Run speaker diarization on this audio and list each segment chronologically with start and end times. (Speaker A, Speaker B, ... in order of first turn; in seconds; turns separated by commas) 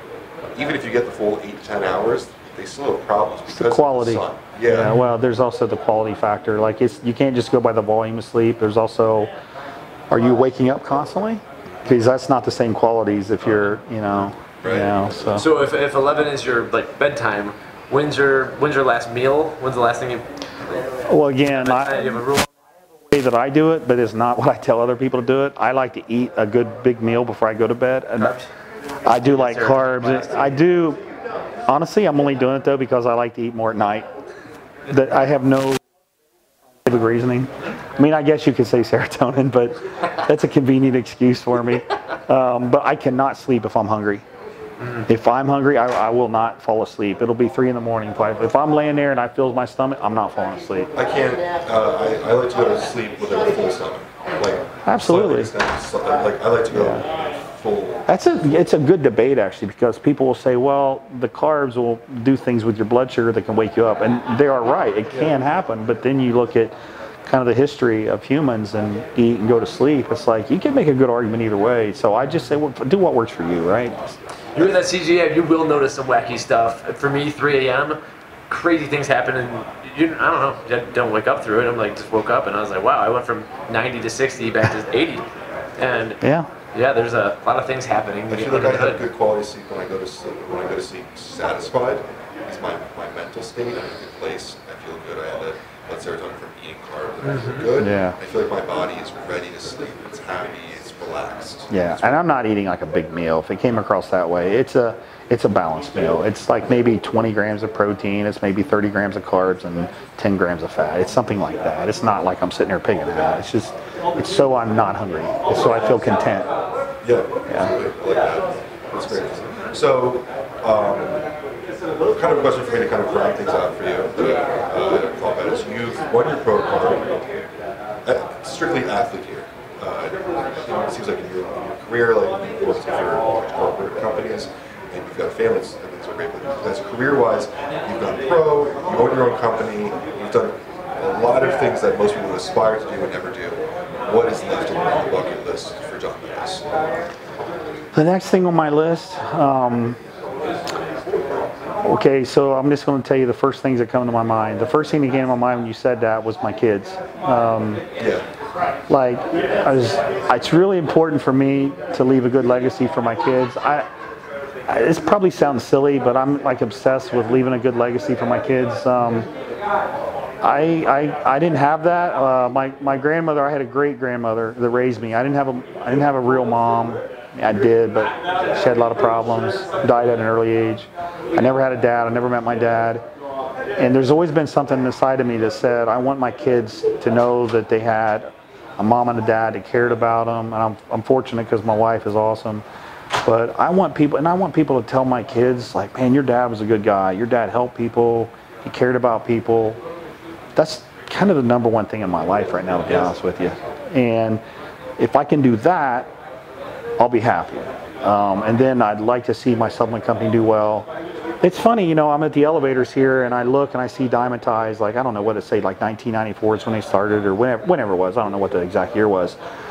Speaker A: 0.5-5.0, Speaker B: 3.5-9.3, Speaker C: 4.8-5.1, Speaker B: 10.1-15.4, Speaker A: 14.6-15.1, Speaker C: 15.3-20.3, Speaker B: 21.1-22.2, Speaker C: 21.5-22.5, Speaker B: 23.1-28.3, Speaker C: 28.2-28.5, Speaker B: 29.1-31.0, Speaker C: 29.1-30.6, Speaker B: 31.7-34.1, Speaker B: 34.9-35.8, Speaker B: 36.8-44.2, Speaker C: 44.8-45.0, Speaker B: 45.1-50.9, Speaker A: 51.0-58.0, Speaker B: 54.9-55.5, Speaker B: 56.7-57.0, Speaker B: 58.1-66.7, Speaker B: 67.2-74.2, Speaker C: 74.5-78.0, Speaker C: 78.5-85.2, Speaker C: 85.8-86.2, Speaker B: 86.2-86.5, Speaker C: 86.7-89.0, Speaker A: 88.3-102.3, Speaker C: 97.2-97.7, Speaker B: 97.8-98.2, Speaker B: 101.7-116.5, Speaker A: 117.0-121.2, Speaker B: 117.5-117.7, Speaker A: 122.1-127.1, Speaker A: 128.0-146.6, Speaker B: 147.9-150.0, Speaker B: 151.8-157.8, Speaker A: 158.0-158.2, Speaker B: 158.9-163.9, Speaker B: 164.7-169.3, Speaker B: 170.4-183.0, Speaker B: 183.8-192.6, Speaker B: 193.2-199.8, Speaker B: 200.6-204.4, Speaker B: 205.0-206.1, Speaker B: 207.0-210.9, Speaker B: 211.4-219.4